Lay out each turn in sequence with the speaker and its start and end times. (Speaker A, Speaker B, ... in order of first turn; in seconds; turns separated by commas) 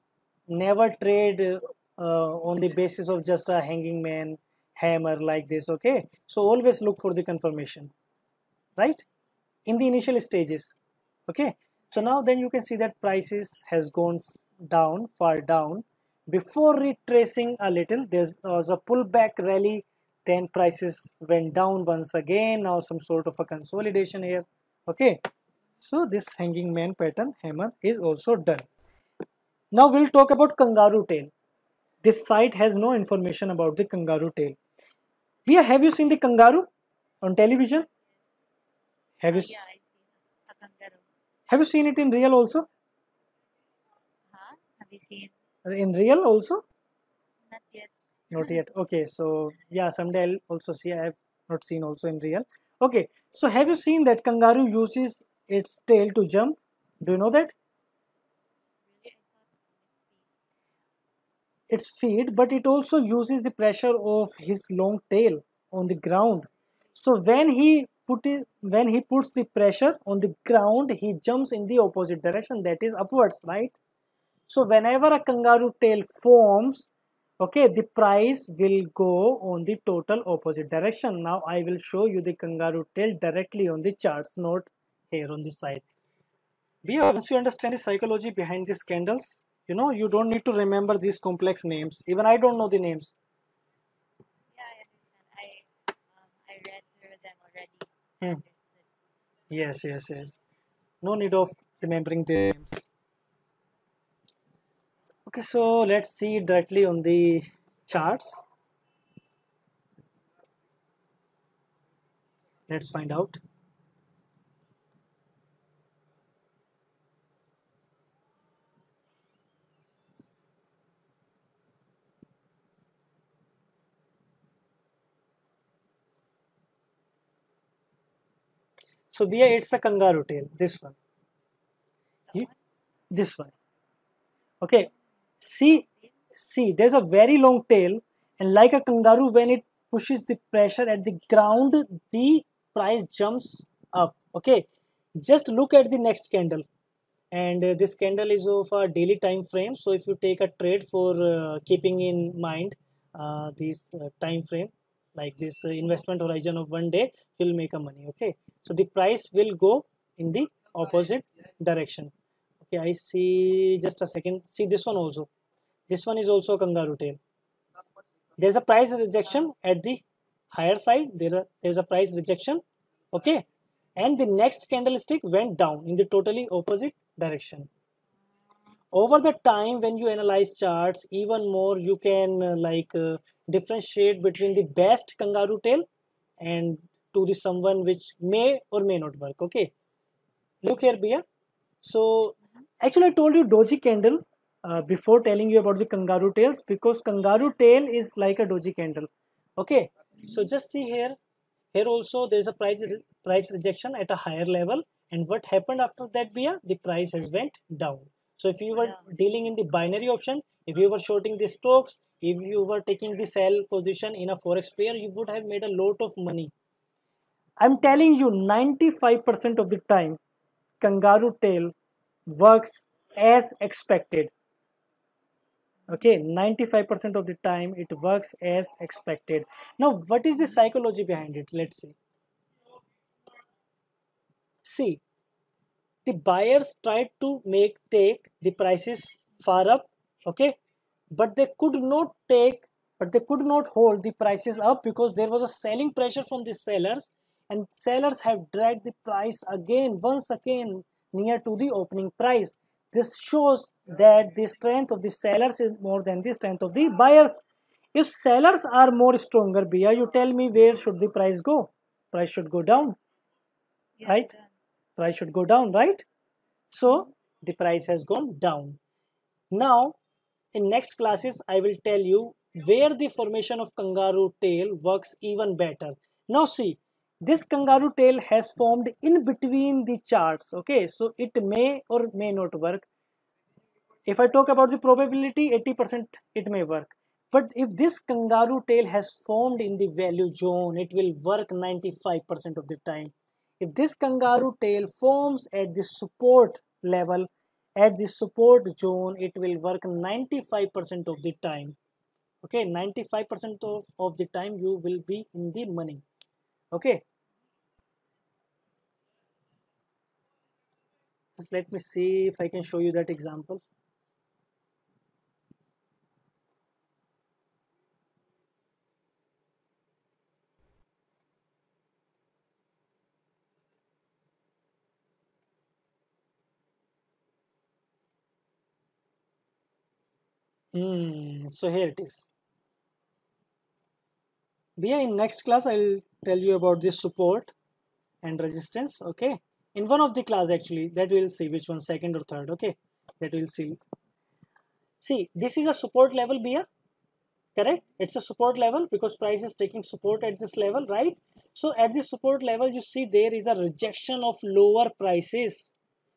Speaker A: 0.5-7.9, Speaker A: 8.8-9.0, Speaker A: 9.7-25.2, Speaker A: 25.8-28.7, Speaker A: 29.7-31.3, Speaker A: 32.0-34.6, Speaker A: 35.5-36.7, Speaker A: 37.2-37.9, Speaker A: 39.2-39.6, Speaker B: 39.3-41.0, Speaker A: 41.5-42.7, Speaker B: 44.3-45.3, Speaker A: 45.6-46.6, Speaker B: 47.4-48.6, Speaker A: 48.3-57.5, Speaker B: 58.9-60.2, Speaker A: 61.7-73.8, Speaker A: 74.5-76.9, Speaker A: 77.4-85.8, Speaker A: 86.8-93.2, Speaker B: 94.5-98.8, Speaker A: 99.5-100.4, Speaker A: 101.0-102.9, Speaker A: 105.3-108.4, Speaker A: 112.7-113.4, Speaker A: 129.1-131.0, Speaker A: 133.1-133.5, Speaker A: 134.6-134.9, Speaker A: 135.4-144.6, Speaker A: 145.2-146.7, Speaker A: 147.3-162.1, Speaker A: 162.6-165.3, Speaker A: 165.9-167.2, Speaker A: 168.4-173.4, Speaker A: 173.9-177.7, Speaker A: 178.9-185.9, Speaker A: 186.4-189.7, Speaker A: 190.6-191.2, Speaker A: 191.8-201.2, Speaker A: 201.7-216.5, Speaker B: 208.7-209.0, Speaker A: 217.6-220.2, Speaker A: 220.8-221.7, Speaker A: 222.3-224.3, Speaker A: 225.9-231.9, Speaker A: 234.6-235.0, Speaker A: 236.0-240.5, Speaker A: 241.1-263.0, Speaker B: 264.0-264.5, Speaker A: 264.0-264.3, Speaker A: 265.0-266.1, Speaker A: 266.7-268.8, Speaker A: 269.5-270.0, Speaker A: 270.5-282.9, Speaker A: 284.1-301.8, Speaker A: 302.4-306.0, Speaker A: 306.7-307.0, Speaker A: 311.3-313.6, Speaker A: 330.7-332.3, Speaker A: 334.8-337.5, Speaker A: 338.2-343.8, Speaker A: 345.0-346.7, Speaker A: 347.6-355.8